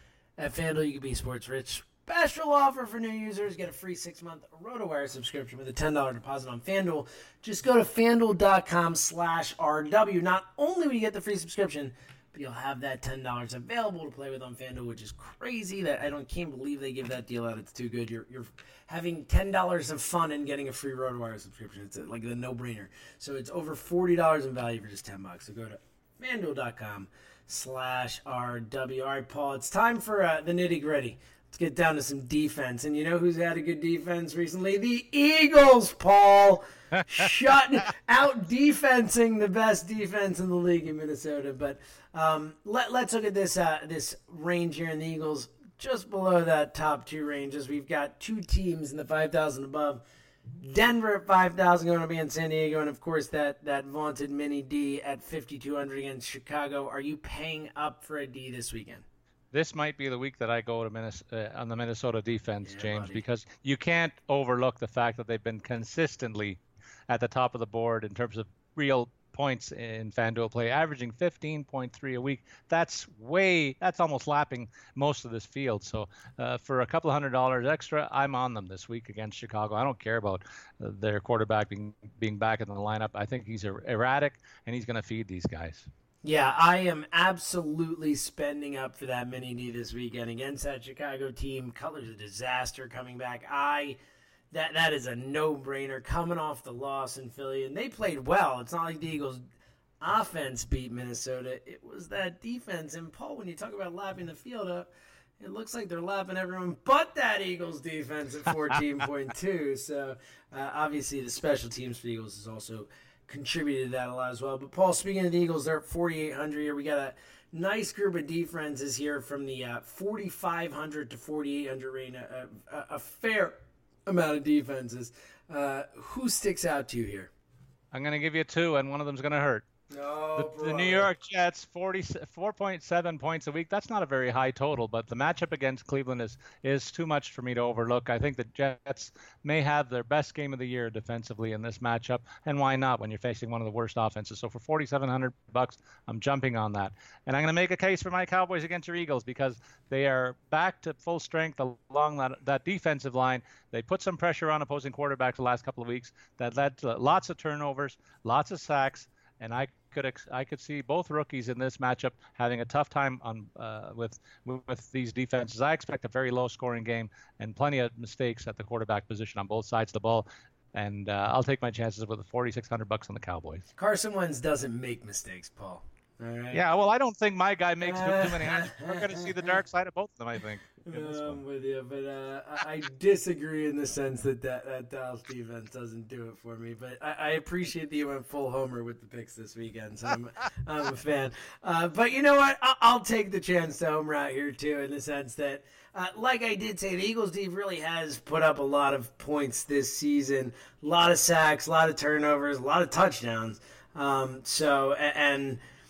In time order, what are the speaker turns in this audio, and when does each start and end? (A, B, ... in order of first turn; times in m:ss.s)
0:00.4-0:50.0 A
0:50.6-0:59.0 A
0:59.5-1:25.9 B
1:02.6-1:03.2 A
1:26.2-1:34.0 A
1:34.5-1:39.4 A
1:40.0-2:07.3 A
2:07.9-2:09.6 B
2:09.9-2:11.1 A
2:10.3-2:53.6 B
2:53.7-2:56.6 A
2:56.5-3:01.4 B
2:57.8-2:59.6 A
3:00.9-3:25.6 A